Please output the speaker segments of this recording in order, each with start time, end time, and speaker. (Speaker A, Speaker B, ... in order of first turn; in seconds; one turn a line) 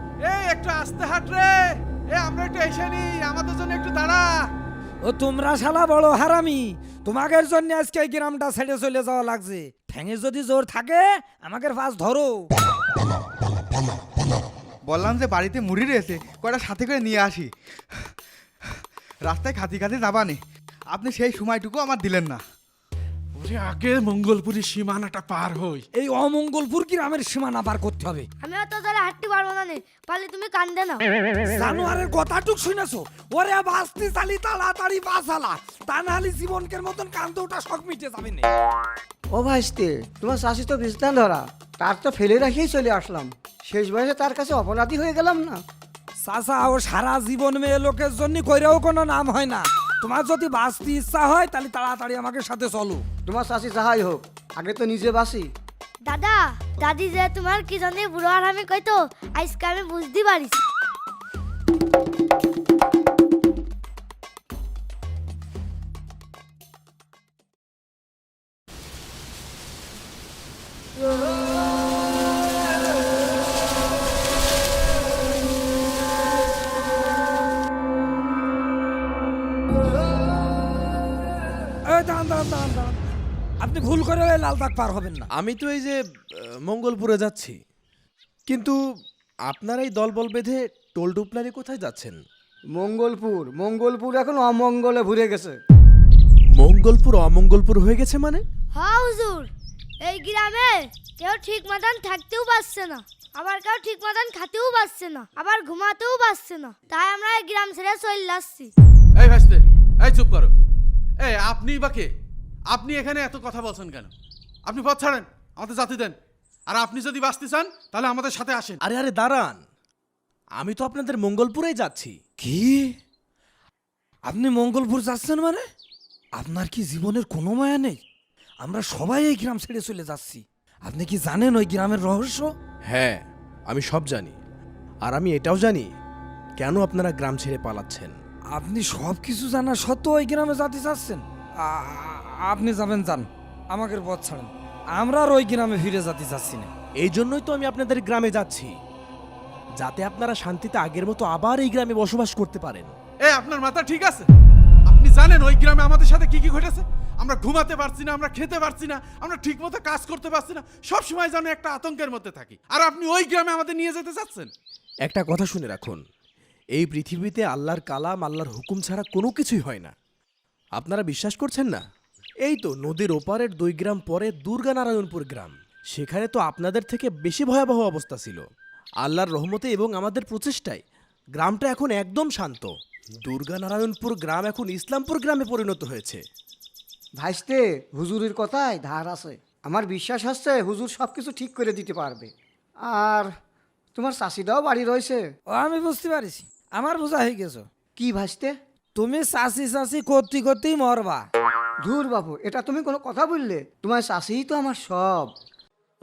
Speaker A: 0.2-4.5
Speaker B: 5.0-12.5
Speaker C: 14.9-17.5
Speaker C: 19.2-20.4
Speaker C: 20.9-22.4
Speaker A: 23.3-25.8
Speaker B: 25.9-28.3
Speaker D: 28.4-31.1
Speaker B: 31.4-38.5
Speaker E: 39.3-45.6
Speaker B: 46.2-53.0
Speaker E: 53.3-55.5
Speaker D: 56.0-60.6
Speaker B: 81.9-83.0
Speaker B: 83.6-85.3
Speaker F: 85.4-87.6
Speaker F: 88.5-88.8
Speaker F: 89.5-92.2
Speaker E: 92.8-95.6
Speaker F: 96.6-98.4
Speaker D: 98.7-99.5
Speaker D: 100.0-108.7
Speaker A: 109.2-110.5
Speaker A: 111.2-112.1
Speaker A: 112.7-114.1
Speaker A: 114.7-116.1
Speaker A: 116.7-118.8
Speaker F: 118.8-119.6
Speaker F: 120.6-122.2
Speaker B: 122.4-123.0
Speaker B: 124.2-125.7
Speaker B: 126.4-128.0
Speaker B: 128.6-132.5
Speaker F: 132.9-134.4
Speaker F: 135.0-135.9
Speaker F: 136.6-138.2
Speaker B: 138.5-146.7
Speaker F: 147.0-148.7
Speaker F: 149.8-152.9
Speaker A: 153.3-154.3
Speaker A: 154.9-164.5
Speaker F: 165.1-166.0
Speaker F: 166.8-169.9
Speaker F: 170.8-171.8
Speaker F: 172.4-178.4
Speaker F: 179.0-180.8
Speaker F: 181.4-186.2
Speaker E: 187.2-192.3
Speaker E: 192.8-193.3
Speaker E: 193.9-195.3
Speaker B: 195.5-197.7
Speaker E: 197.9-198.6
Speaker B: 198.9-201.2
Speaker E: 201.8-205.3